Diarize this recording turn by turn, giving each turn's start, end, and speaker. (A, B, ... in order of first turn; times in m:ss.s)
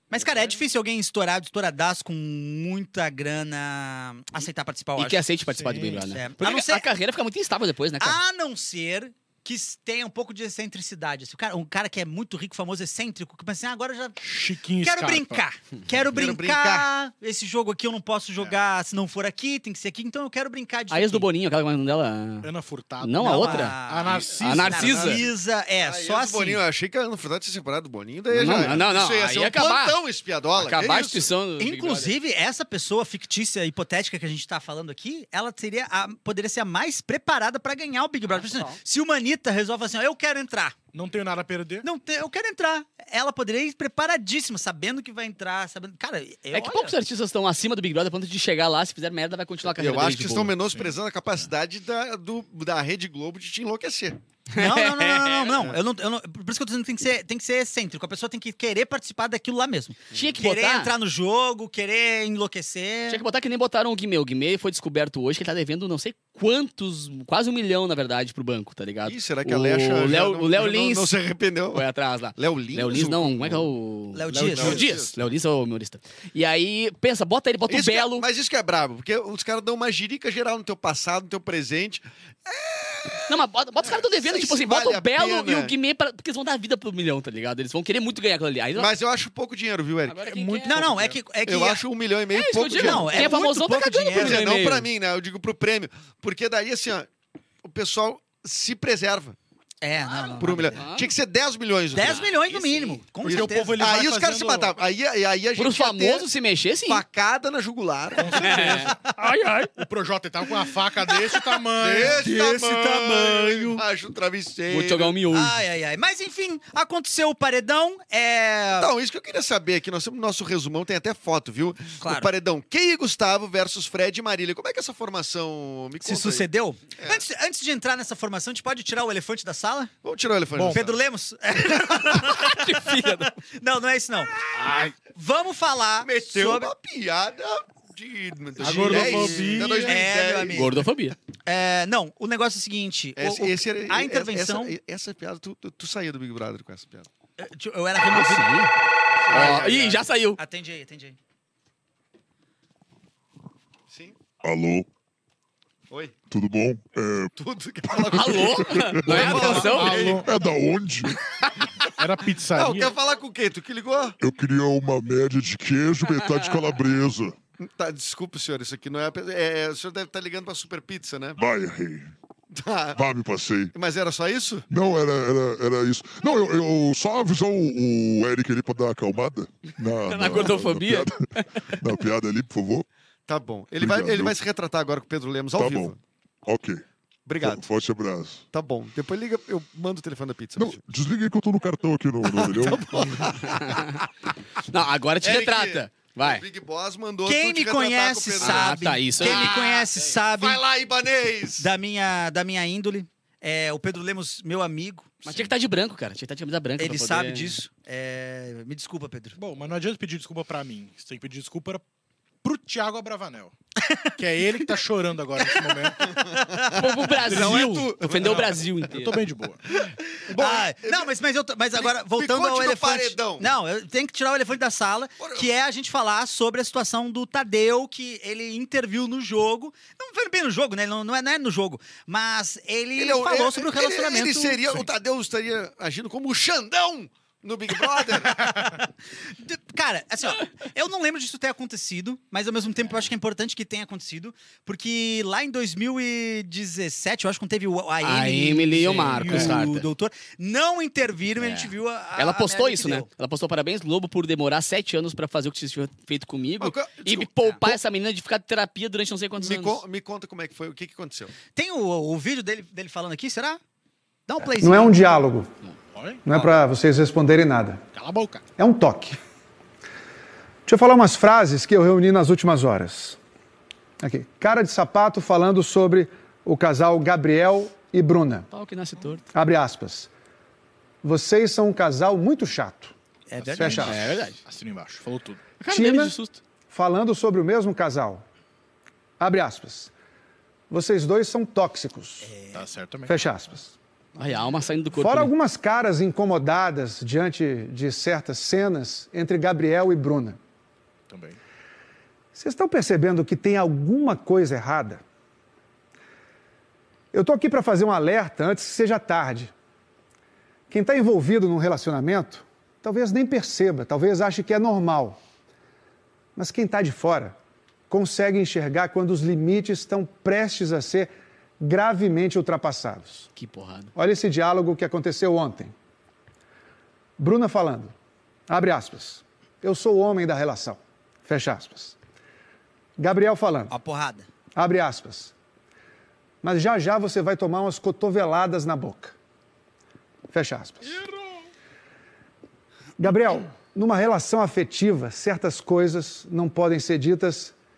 0:00.1-0:05.2 A
0:05.0-0:08.2 B
0:05.5-0:06.1 C
0:06.1-0:06.9 A
0:08.0-0:14.2 A
0:14.2-0:15.4 C
0:14.8-0:21.3 A
0:16.1-0:16.9 D
0:20.9-0:25.2 B
0:22.4-0:25.2 C
0:23.2-0:26.6 A
0:24.6-0:25.2 D
0:25.8-0:31.3 D
0:28.3-0:30.0 B
0:30.5-0:32.1 B
0:31.6-0:40.7 A
0:38.4-0:38.7 B
0:40.9-0:41.8 C
0:41.8-0:46.9 A
0:46.5-0:50.6 B
0:49.6-0:54.2 D
0:54.5-0:55.5 B
0:54.5-1:03.2 A
1:00.1-1:00.9 B
1:03.1-1:11.1 B
1:09.0-1:11.8 D
1:11.7-1:18.2 B
1:12.4-1:13.7 D
1:14.1-1:14.8 A
1:14.5-1:15.2 D
1:17.7-1:25.7 D
1:23.3-1:28.9 B
1:28.8-1:33.4 D
1:30.0-1:30.8 B
1:30.2-1:31.2 C
1:30.6-1:31.8 A
1:32.3-1:34.9 B
1:32.8-1:34.4 A
1:34.1-1:37.1 D
1:37.6-1:39.4 D
1:39.8-1:40.8 A
1:40.1-1:41.1 B
1:40.4-1:42.3 D
1:41.9-1:43.8 A
1:42.0-1:43.0 B
1:43.2-1:44.7 C
1:43.2-1:46.2 D
1:45.6-1:47.0 B
1:46.9-1:48.9 D
1:48.1-1:49.0 C
1:48.4-1:49.7 B
1:49.7-1:52.2 C
1:51.7-1:55.2 D
1:52.0-1:53.8 A
1:54.7-1:55.6 B
1:55.3-1:58.9 A
1:58.8-2:07.2 D
2:02.0-2:02.3 A
2:06.0-2:09.9 A
2:10.0-2:10.9 D
2:10.5-2:10.8 C
2:10.7-2:14.4 A
2:12.1-2:13.3 B
2:14.6-2:14.9 C
2:15.1-2:16.7 A
2:16.0-2:20.7 D
2:18.6-2:20.0 C
2:18.6-2:20.8 A
2:20.5-2:21.2 B
2:21.4-2:24.7 A
2:23.2-2:27.1 D
2:27.4-2:28.7 A
2:28.0-2:28.7 B
2:29.2-2:30.0 C
2:29.3-2:30.4 B
2:29.3-2:29.7 A
2:30.4-2:31.2 A
2:33.9-2:34.2 D
2:34.4-2:34.8 E
2:35.9-2:36.1 D
2:36.3-2:37.3 E
2:37.4-2:40.4 D
2:37.9-2:39.5 E
2:38.1-2:40.2 B
2:39.1-2:40.3 C
2:40.0-2:41.2 E
2:42.0-2:42.9 C
2:42.5-2:44.2 D
2:44.2-2:47.4 E
2:47.6-2:51.4 D
2:51.4-2:52.1 E
2:52.5-2:53.0 D
2:53.0-2:53.7 E
2:53.7-2:54.7 D
2:54.7-3:01.2 E
3:00.1-3:01.5 B
3:01.7-3:02.8 E
3:03.3-3:06.0 D
3:03.8-3:04.3 E
3:05.6-3:05.9 E
3:06.4-3:06.8 E
3:07.2-3:07.6 D
3:07.4-3:08.4 E
3:08.5-3:10.8 D
3:10.6-3:13.3 E
3:12.3-3:14.0 D
3:13.6-3:13.9 B
3:14.7-3:16.4 B
3:15.2-3:21.6 D
3:17.2-3:20.6 A
3:18.4-3:19.8 B
3:21.6-3:25.5 A
3:25.2-3:27.5 B
3:26.8-3:29.4 A
3:29.4-3:31.8 C
3:32.4-3:33.5 C
3:33.8-3:34.1 A
3:34.2-3:36.0 C
3:35.4-3:36.7 A
3:36.0-3:38.6 D
3:36.7-3:39.2 B
3:37.3-3:39.6 C
3:39.7-3:41.1 D
3:40.3-3:54.8 A
3:41.7-3:43.5 D
3:45.2-3:45.5 D
3:53.0-3:58.5 D
3:58.3-4:13.1 A
4:08.0-4:09.9 B
4:09.1-4:09.6 C
4:11.4-4:19.8 B
4:16.6-4:17.8 D
4:19.4-4:21.3 D
4:21.5-4:23.6 A
4:24.3-4:25.0 A
4:24.6-4:25.5 F
4:25.9-4:26.2 C
4:26.2-4:27.8 F
4:27.9-4:28.4 C
4:28.6-4:29.2 F
4:30.6-4:33.2 F
4:34.0-4:38.5 F
4:38.5-4:39.2 B
4:39.3-4:40.1 F
4:41.0-4:42.9 F
4:43.3-4:43.9 A
4:43.4-4:45.4 C
4:43.6-4:44.0 F
4:43.8-4:44.4 B
4:45.6-4:46.4 B
4:45.7-4:46.2 F
4:46.7-4:48.2 F
4:49.2-4:49.9 F
4:50.7-4:52.3 F
4:52.2-4:52.6 A
4:52.5-4:53.2 C
4:53.0-4:53.7 F
4:54.2-4:55.3 B
4:54.9-5:00.4 F
5:01.1-5:01.4 C
5:02.3-5:05.0 F
5:07.1-5:09.5 F
5:10.7-5:15.2 F
5:16.4-5:17.4 F
5:17.9-5:23.3 F
5:23.4-5:23.9 B
5:23.9-5:25.7 F
5:27.2-5:27.9 F
5:28.5-5:32.0 F
5:33.0-5:33.7 F
5:33.7-5:34.3 A
5:34.6-5:35.3 F
5:36.4-5:39.1 F
5:40.3-5:41.0 F
5:43.0-5:47.5 F